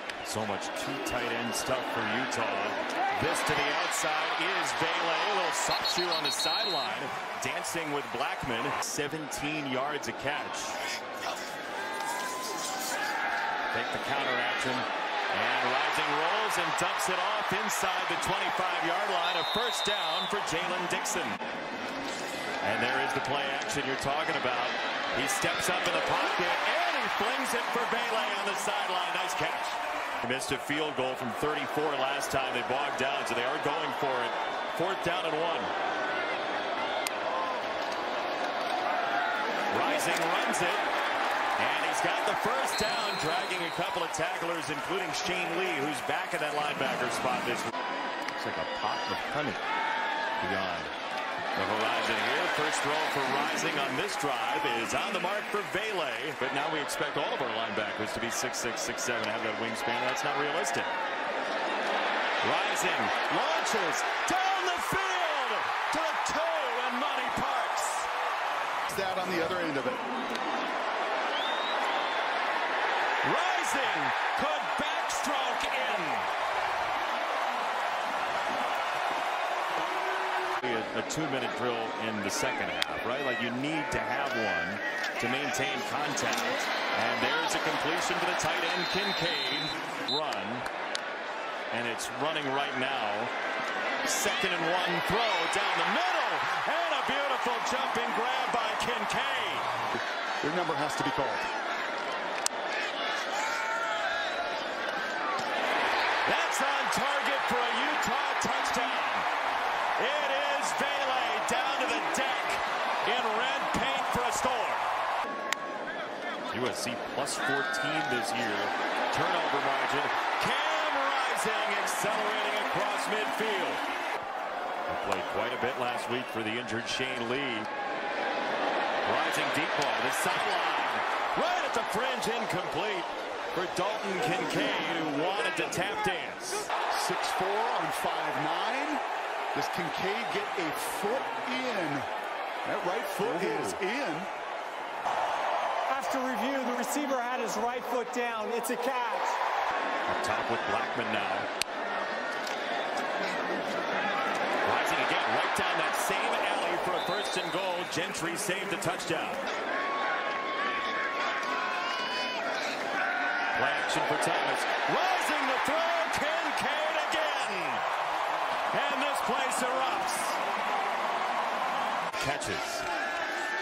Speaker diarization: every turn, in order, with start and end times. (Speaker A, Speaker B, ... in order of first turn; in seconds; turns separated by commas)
Speaker A: 0.2-10.8, Speaker A: 13.7-21.4, Speaker A: 22.6-35.7, Speaker A: 39.7-40.8, Speaker A: 41.6-47.7, Speaker A: 48.3-49.6, Speaker A: 50.4-50.9, Speaker A: 51.5-60.9, Speaker A: 62.4-68.1, Speaker B: 68.9-70.0, Speaker A: 73.2-76.3, Speaker A: 80.6-90.7, Speaker A: 91.7-93.3, Speaker A: 94.0-99.7, Speaker B: 99.9-101.5, Speaker A: 106.2-109.3, Speaker A: 110.0-114.9, Speaker A: 116.5-123.8, Speaker A: 124.9-127.7, Speaker A: 129.0-136.7, Speaker B: 136.9-139.0, Speaker B: 139.5-142.1, Speaker B: 142.6-144.3, Speaker A: 143.2-143.8, Speaker C: 145.9-149.4, Speaker A: 150.1-151.5, Speaker A: 154.6-159.4, Speaker A: 163.5-167.8, Speaker A: 168.7-170.4, Speaker A: 172.1-172.8